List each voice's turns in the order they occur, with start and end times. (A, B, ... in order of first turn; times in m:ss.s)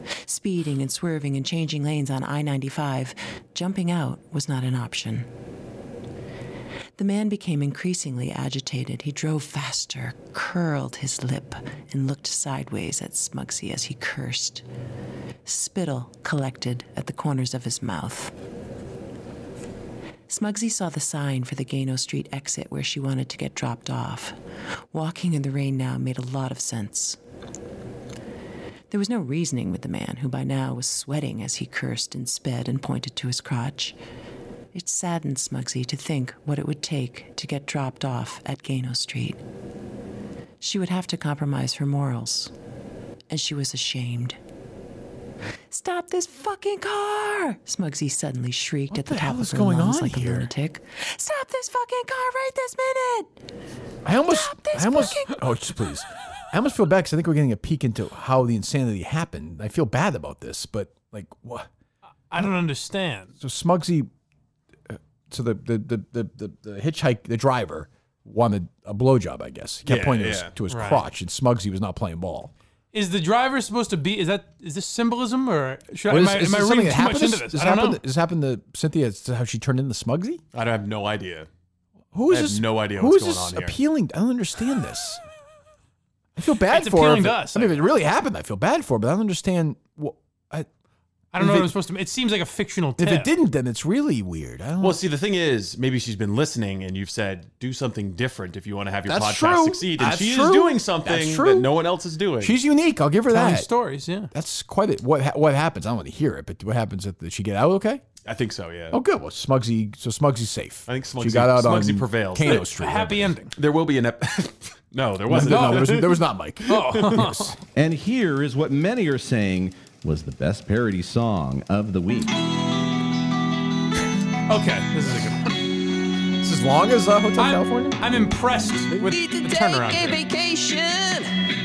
0:00.3-0:05.3 A
0:07.0-0:14.6 A
0:15.4-0:18.3 A
0:20.3-0:24.4 A
0:24.9-0:27.2 A
0:28.9-0:34.0 A
0:34.7-0:39.4 A
0:40.6-0:42.5 A
0:43.3-0:44.4 A
0:45.7-0:53.4 A
0:48.9-0:50.5 B
0:54.0-1:01.7 B
0:54.3-0:55.4 A
1:02.3-1:03.3 C
1:03.4-1:04.1 B
1:04.9-1:12.5 B
1:09.9-1:10.5 D
1:10.7-1:11.0 C
1:12.9-1:18.0 C
1:16.1-1:20.4 B
1:20.5-1:21.5 D
1:22.1-1:25.2 B
1:22.3-1:23.8 D
1:26.4-1:30.7 B
1:26.7-1:27.8 C
1:31.3-1:33.3 C
1:31.4-1:31.7 B
1:33.0-1:35.0 B
1:34.8-1:42.6 D
1:39.1-1:41.7 B
1:42.4-1:43.7 B
1:43.3-1:44.3 C
1:44.3-1:48.0 B
1:48.2-1:49.0 D
1:48.9-1:53.4 B
1:50.9-1:52.7 D
1:52.4-1:53.5 C
1:53.6-1:57.2 D
1:55.3-1:57.6 B
1:55.3-1:56.0 C
1:56.7-1:57.6 C
1:57.8-2:02.4 E
2:04.5-2:05.6 C
2:06.4-2:08.0 B
2:07.4-2:10.2 C
2:09.0-2:11.3 F